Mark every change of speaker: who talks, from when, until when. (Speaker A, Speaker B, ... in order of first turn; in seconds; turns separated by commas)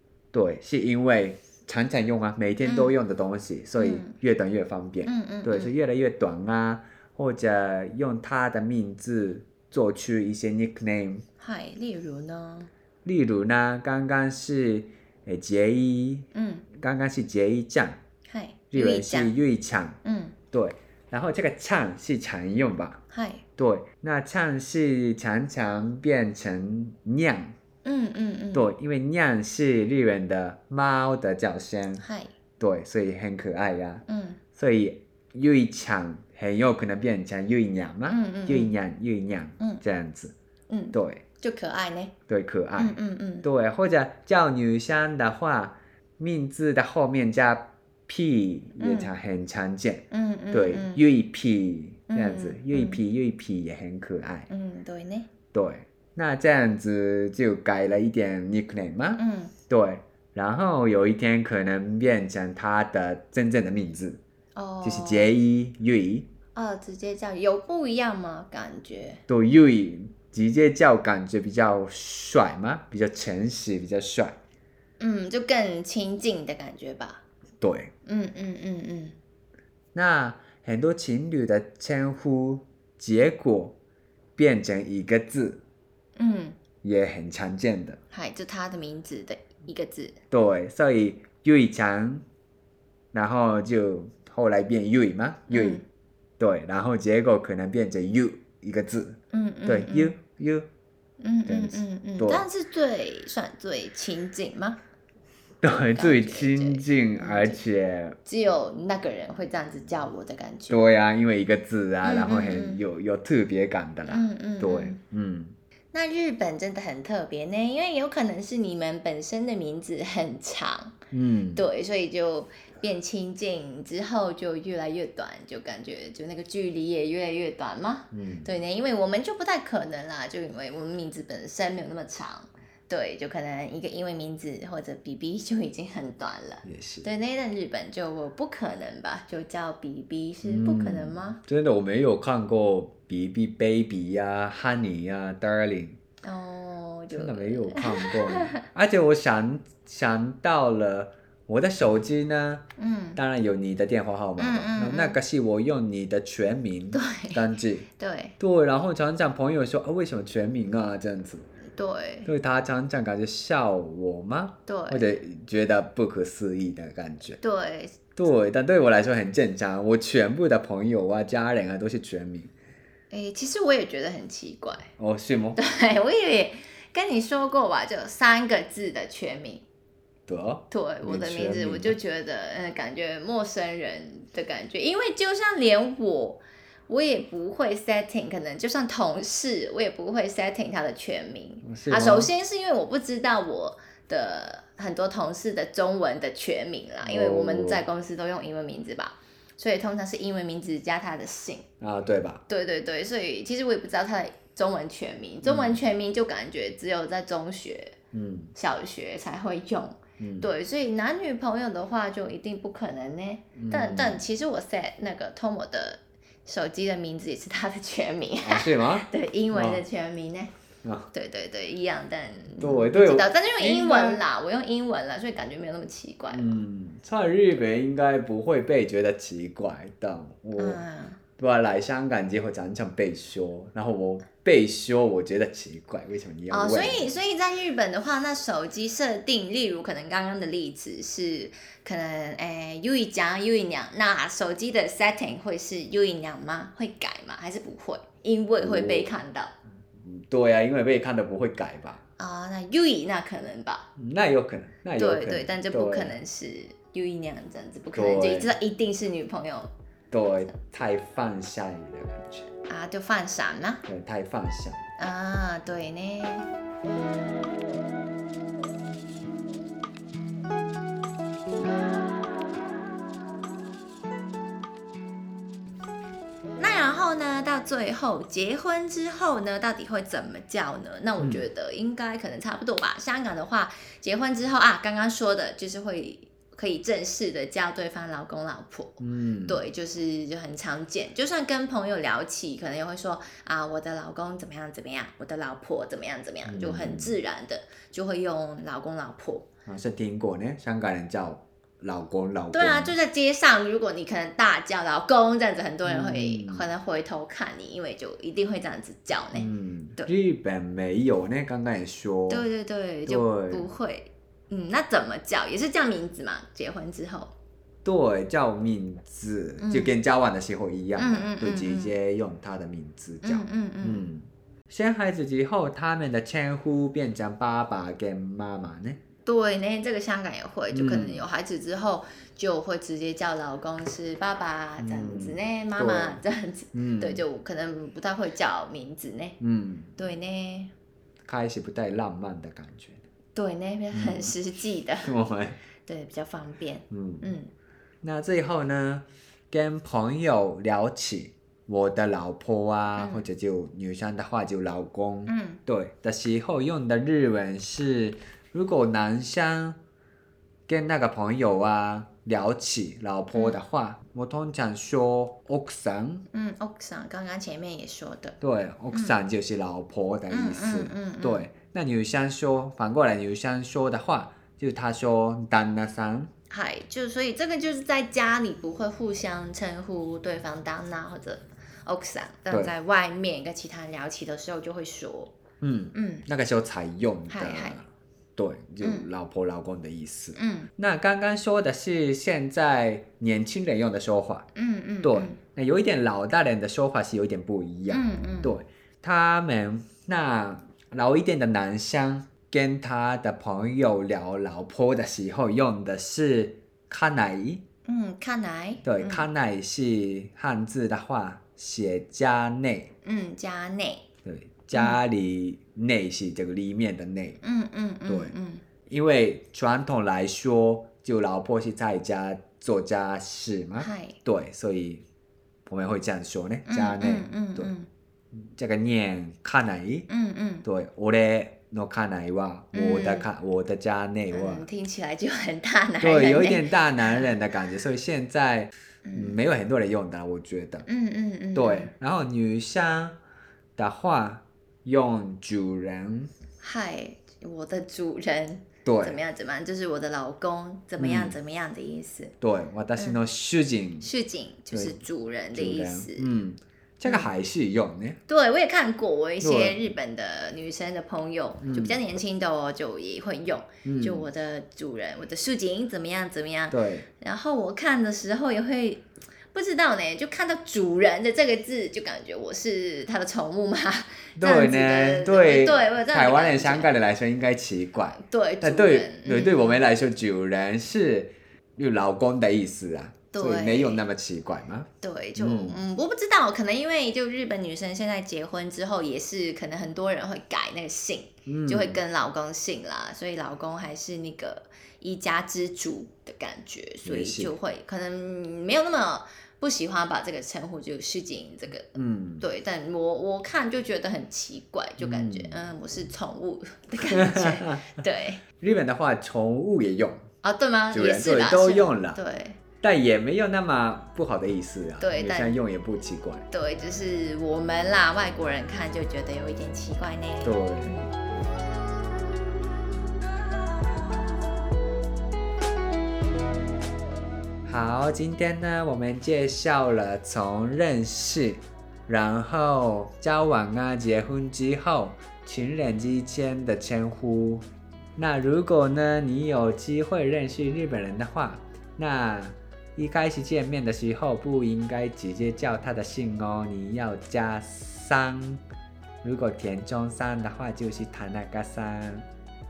Speaker A: 0.3-11.2, Speaker B: 2.6-3.0, Speaker B: 3.8-4.1, Speaker B: 5.0-5.7, Speaker B: 11.4-12.7, Speaker A: 13.0-18.0, Speaker B: 16.3-16.6, Speaker B: 18.3-19.3, Speaker A: 18.7-20.0, Speaker B: 20.0-20.4, Speaker A: 20.5-23.0, Speaker B: 23.1-23.4, Speaker A: 23.6-27.5, Speaker B: 27.8-28.7, Speaker A: 28.5-32.0, Speaker B: 32.0-32.3, Speaker A: 32.6-34.0, Speaker B: 34.0-34.4, Speaker A: 34.5-40.3, Speaker B: 38.1-38.7, Speaker B: 40.7-42.1, Speaker A: 40.9-41.2, Speaker A: 42.3-54.5, Speaker B: 42.8-43.5, Speaker B: 48.8-49.1, Speaker B: 50.1-51.0, Speaker B: 52.1-53.0, Speaker B: 54.5-55.3, Speaker A: 55.5-64.2, Speaker B: 59.2-59.5, Speaker B: 64.5-65.3, Speaker A: 64.8-66.3, Speaker B: 66.5-69.2, Speaker A: 69.3-74.4, Speaker B: 75.0-77.2, Speaker A: 77.6-77.9, Speaker B: 78.0-79.2, Speaker A: 79.9-83.8, Speaker A: 84.4-85.6, Speaker B: 86.2-86.6, Speaker A: 86.8-88.0, Speaker B: 88.1-90.2, Speaker A: 90.3-92.2, Speaker A: 93.1-95.8, Speaker B: 95.5-95.8, Speaker A: 96.4-100.7, Speaker B: 99.3-100.1, Speaker B: 101.2-104.8, Speaker A: 101.5-102.5, Speaker A: 105.6-108.2, Speaker B: 105.7-107.6, Speaker B: 108.2-110.8, Speaker A: 110.7-115.5, Speaker B: 112.0-112.8, Speaker B: 114.0-115.0, Speaker B: 115.9-121.0, Speaker A: 121.1-121.6, Speaker B: 121.5-141.4, Speaker A: 128.1-128.5, Speaker A: 136.6-137.1, Speaker A: 140.4-146.0, Speaker B: 146.2-148.6, Speaker A: 147.1-152.6, Speaker B: 152.8-153.2, Speaker A: 153.2-157.9, Speaker B: 154.4-155.2, Speaker B: 156.9-157.4, Speaker B: 157.9-158.3, Speaker A: 158.4-161.5, Speaker B: 161.8-162.3, Speaker A: 162.2-167.4, Speaker B: 164.7-165.2, Speaker B: 167.4-168.0, Speaker A: 168.2-172.5, Speaker B: 173.1-174.9, Speaker A: 175.0-175.6, Speaker B: 175.6-179.6, Speaker A: 180.3-182.0, Speaker B: 180.7-201.6, Speaker A: 191.6-192.3, Speaker A: 197.0-197.8, Speaker A: 201.8-202.4, Speaker B: 202.5-207.9, Speaker A: 205.4-205.8, Speaker A: 208.1-208.5, Speaker B: 208.5-220.5, Speaker A: 210.2-210.5, Speaker A: 213.6-214.2, Speaker A: 218.4-219.8, Speaker A: 220.8-221.1, Speaker B: 221.1-226.6, Speaker A: 222.6-224.2, Speaker A: 226.3-230.8, Speaker B: 230.6-231.2, Speaker A: 231.4-237.2, Speaker B: 236.5-249.5, Speaker A: 248.6-249.1, Speaker A: 249.9-252.0, Speaker B: 252.2-253.9, Speaker A: 254.0-256.2, Speaker B: 254.9-259.7, Speaker A: 257.9-258.5, Speaker A: 260.1-262.5, Speaker B: 262.7-263.8, Speaker A: 263.9-264.8, Speaker B: 265.0-266.5, Speaker B: 276.6-299.5, Speaker A: 281.2-281.5, Speaker A: 289.0-289.6, Speaker A: 296.4-297.1, Speaker A: 299.6-302.9, Speaker B: 302.5-310.1, Speaker A: 305.9-306.6, Speaker A: 309.3-312.5, Speaker B: 312.3-317.3, Speaker A: 313.1-313.7, Speaker A: 317.8-329.0, Speaker B: 319.6-319.9, Speaker B: 320.9-321.9, Speaker B: 323.2-324.0, Speaker B: 329.2-339.4, Speaker A: 330.7-331.2, Speaker A: 334.8-336.2, Speaker A: 336.7-337.2, Speaker A: 339.4-339.9, Speaker B: 340.0-340.7, Speaker A: 341.2-343.0, Speaker B: 343.4-345.2, Speaker A: 343.9-344.3, Speaker A: 345.0-345.6, Speaker B: 345.9-347.5, Speaker A: 346.9-347.4, Speaker A: 348.0-359.8, Speaker B: 353.0-353.2, Speaker B: 355.3-355.6, Speaker A: 360.7-366.2, Speaker B: 363.3-363.6, Speaker B: 366.3-368.4, Speaker A: 368.4-376.3, Speaker B: 368.9-369.2, Speaker B: 370.3-371.5, Speaker B: 376.5-385.3, Speaker A: 385.6-394.5, Speaker B: 385.9-386.2, Speaker B: 387.3-387.8, Speaker B: 390.4-390.7, Speaker B: 394.5-395.4, Speaker A: 395.0-407.6, Speaker B: 397.9-398.5, Speaker B: 407.9-409.3, Speaker A: 408.8-412.9, Speaker B: 413.0-414.0, Speaker A: 414.2-417.4, Speaker B: 414.7-415.0, Speaker B: 417.4-418.6, Speaker A: 418.1-418.4, Speaker A: 418.9-425.0, Speaker B: 423.8-424.2, Speaker A: 425.6-427.7, Speaker B: 426.6-427.9, Speaker A: 428.4-430.1, Speaker B: 430.1-430.6, Speaker A: 430.6-434.6, Speaker B: 432.7-433.3, Speaker B: 434.3-437.3, Speaker A: 436.0-440.9, Speaker B: 439.0-439.4, Speaker B: 440.9-441.9, Speaker A: 441.5-443.2, Speaker A: 443.8-446.3, Speaker B: 446.6-452.3, Speaker A: 448.9-449.2, Speaker A: 451.0-451.4, Speaker A: 452.4-454.1, Speaker B: 453.0-453.2, Speaker B: 454.0-456.3, Speaker A: 454.7-455.0, Speaker A: 455.5-458.2, Speaker B: 457.0-457.3, Speaker B: 458.3-476.9, Speaker A: 459.4-459.8, Speaker A: 461.6-462.0, Speaker A: 463.9-464.3, Speaker A: 466.7-467.1, Speaker A: 474.4-485.8, Speaker B: 478.1-479.8, Speaker B: 483.3-484.1, Speaker B: 485.0-508.4, Speaker A: 491.4-492.0, Speaker A: 497.1-497.6, Speaker A: 501.9-502.5, Speaker A: 505.0-505.6, Speaker A: 507.1-507.9, Speaker A: 508.6-510.3, Speaker B: 510.4-512.6, Speaker A: 510.9-512.2, Speaker A: 512.8-516.5, Speaker B: 515.0-515.6, Speaker B: 516.5-521.1, Speaker A: 520.4-521.0, Speaker A: 527.6-537.6, Speaker A: 538.1-548.6, Speaker A: 549.2-552.2